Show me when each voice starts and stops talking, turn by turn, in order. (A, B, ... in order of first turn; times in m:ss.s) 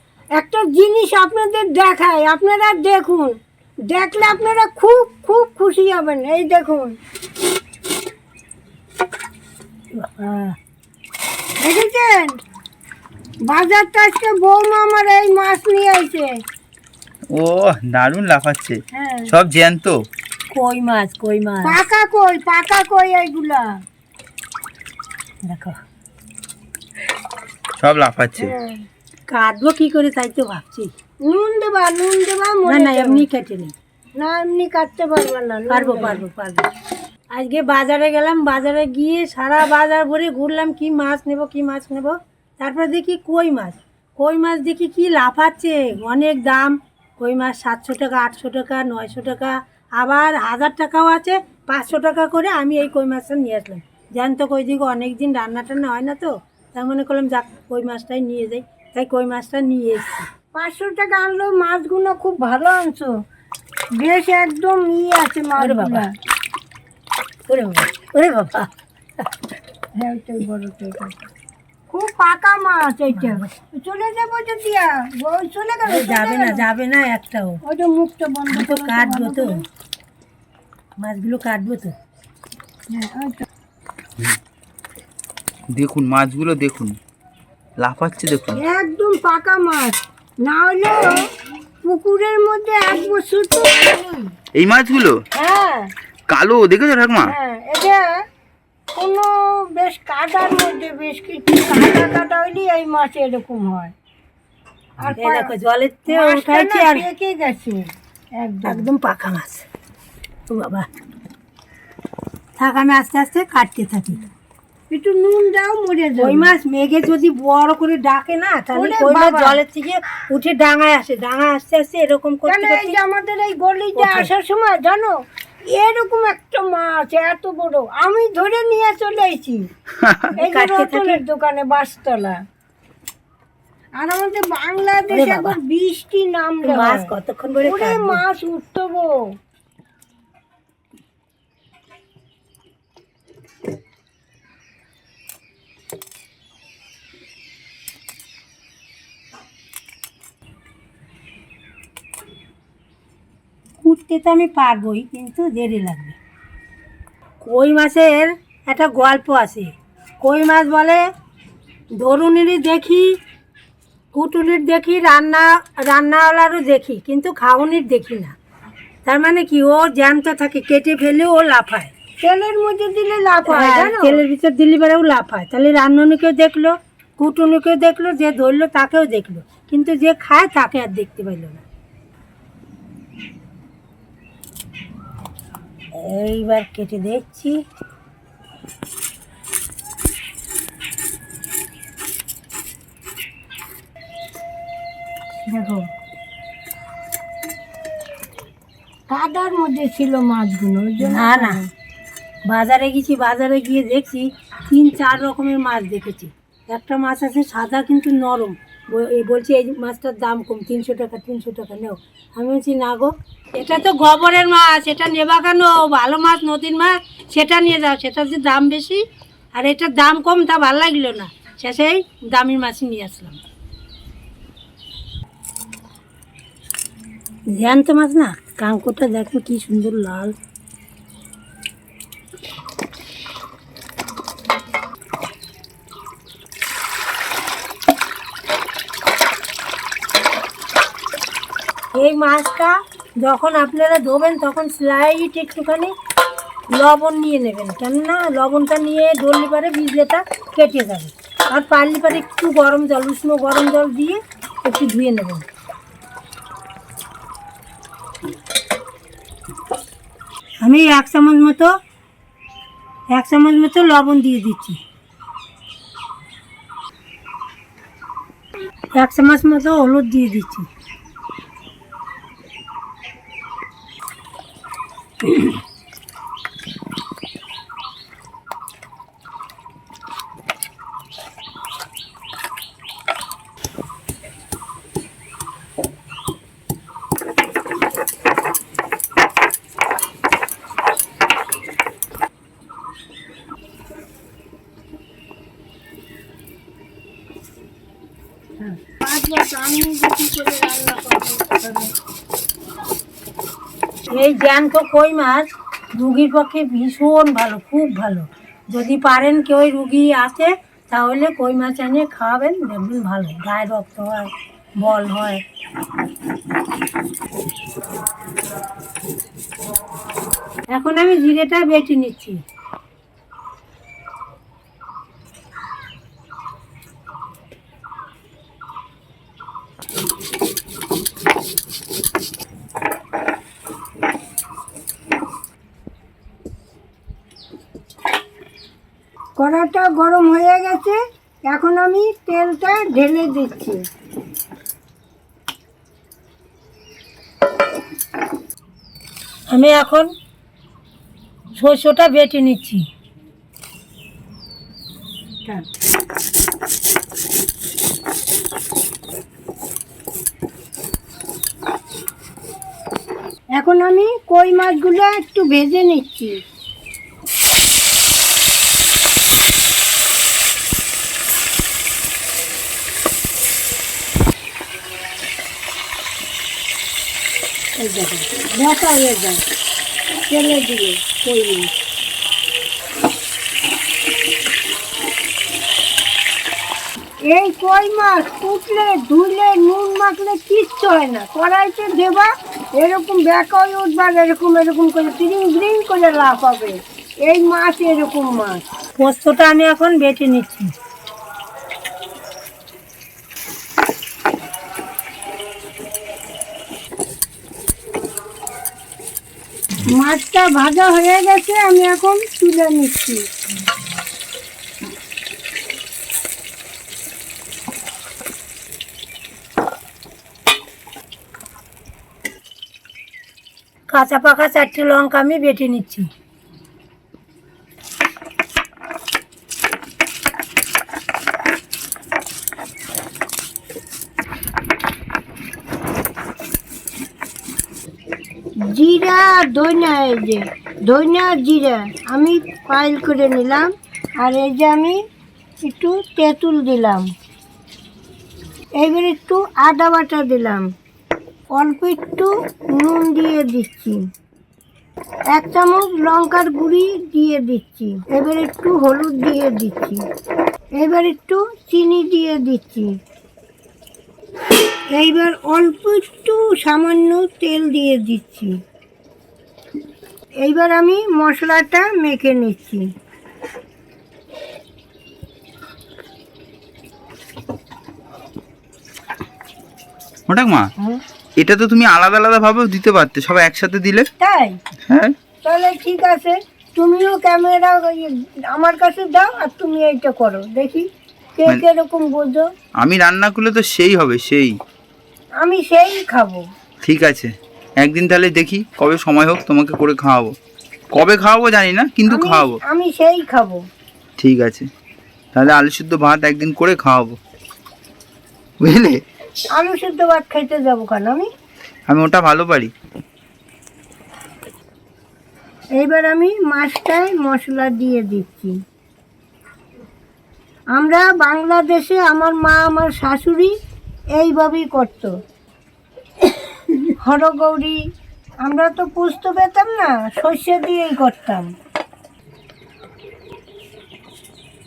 0:00.3-0:03.3 A
0:03.9-0:06.9 A
0:09.9-0:10.6 B
0:11.6-0:12.4 A
0:13.5-0:16.3 A
0:17.3-0:20.0 C
0:18.9-0:19.3 A
0:20.5-0:21.8 B
0:21.6-0:23.7 A
0:25.4-0:25.8 B
0:27.8-0:28.5 C
0:28.4-0:28.8 A
0:29.3-0:30.9 B
0:31.2-0:33.2 A
0:32.6-0:33.7 B
0:34.2-0:36.2 A
0:35.7-0:36.7 B
0:37.3-1:00.3 B
1:00.5-1:03.1 A
1:04.0-1:06.1 A
1:05.6-1:06.0 B
1:07.5-1:08.7 B
1:10.0-1:11.3 A
1:11.9-1:16.6 A
1:13.1-1:13.5 B
1:15.8-1:17.6 B
1:17.6-1:19.6 A
1:18.5-1:19.6 B
1:21.0-1:21.9 B
1:22.9-1:23.4 A
1:25.7-1:27.0 C
1:27.8-1:28.6 C
1:28.5-1:31.1 A
1:31.8-1:34.3 A
1:34.5-1:35.2 C
1:35.3-1:35.9 A
1:36.3-1:37.3 C
1:37.2-1:38.2 A
1:38.9-1:43.9 A
1:45.0-1:45.5 A
1:45.2-1:47.0 B
1:46.1-1:47.8 A
1:48.3-1:48.9 A
1:48.6-1:49.6 B
1:50.5-1:50.9 B
1:52.6-1:54.2 B
1:54.9-1:56.5 A
1:56.2-2:03.0 B
1:58.7-1:59.6 A
2:02.5-2:05.1 A
2:04.0-2:04.3 B
2:05.7-2:09.7 A
2:10.4-2:11.2 B
2:10.4-2:12.4 A
2:14.0-2:19.3 A
2:15.1-2:15.6 B
2:16.6-2:18.2 B
2:33.8-2:36.2 B
2:37.4-2:41.0 B
2:42.0-2:43.1 B
2:44.1-2:48.3 B
2:49.0-2:51.9 B
2:52.2-2:54.2 A
2:53.4-3:01.6 B
3:05.9-3:07.6 B
3:19.1-3:21.7 A
3:21.0-3:21.6 B
3:22.5-3:39.0 B
3:39.5-3:43.4 B
3:47.5-3:50.3 B
4:01.9-4:05.9 B
4:06.7-4:15.4 B
4:20.6-4:21.7 B
4:23.1-4:24.8 B
4:28.9-4:30.7 B
4:58.6-5:01.9 A
5:04.1-5:15.4 B
5:20.7-5:22.4 B
5:39.4-5:43.8 A
5:49.5-5:50.1 B
5:51.5-5:52.8 B
6:03.6-6:06.3 A
6:17.8-6:19.4 A
6:20.3-6:21.7 A
6:27.3-6:38.6 A
6:39.0-6:40.7 B
6:49.9-6:53.2 A
7:03.9-7:06.1 B
7:18.7-7:23.7 A
7:24.2-7:25.0 A
7:25.6-7:27.0 A
7:28.8-7:30.7 A
7:31.5-7:34.0 A
7:35.3-7:40.0 A
7:40.8-7:42.9 A
7:44.9-7:48.5 A
7:50.4-7:52.8 A
8:00.3-8:00.7 C
8:01.4-8:04.1 C
8:04.2-8:04.6 A
8:04.9-8:05.1 C
8:05.4-8:10.8 A
8:11.4-8:12.4 A
8:12.8-8:14.6 C
8:15.4-8:16.4 A
8:16.8-8:20.3 C
8:20.9-8:22.6 C
8:22.1-8:23.6 A
8:24.2-8:24.7 C
8:25.3-8:27.2 C
8:28.6-8:29.0 C
8:29.5-8:31.3 A
8:31.9-8:32.7 C
8:35.8-8:38.5 A
8:40.7-8:43.5 A
8:44.2-8:45.1 A
8:47.0-8:47.8 A
8:48.4-8:51.4 A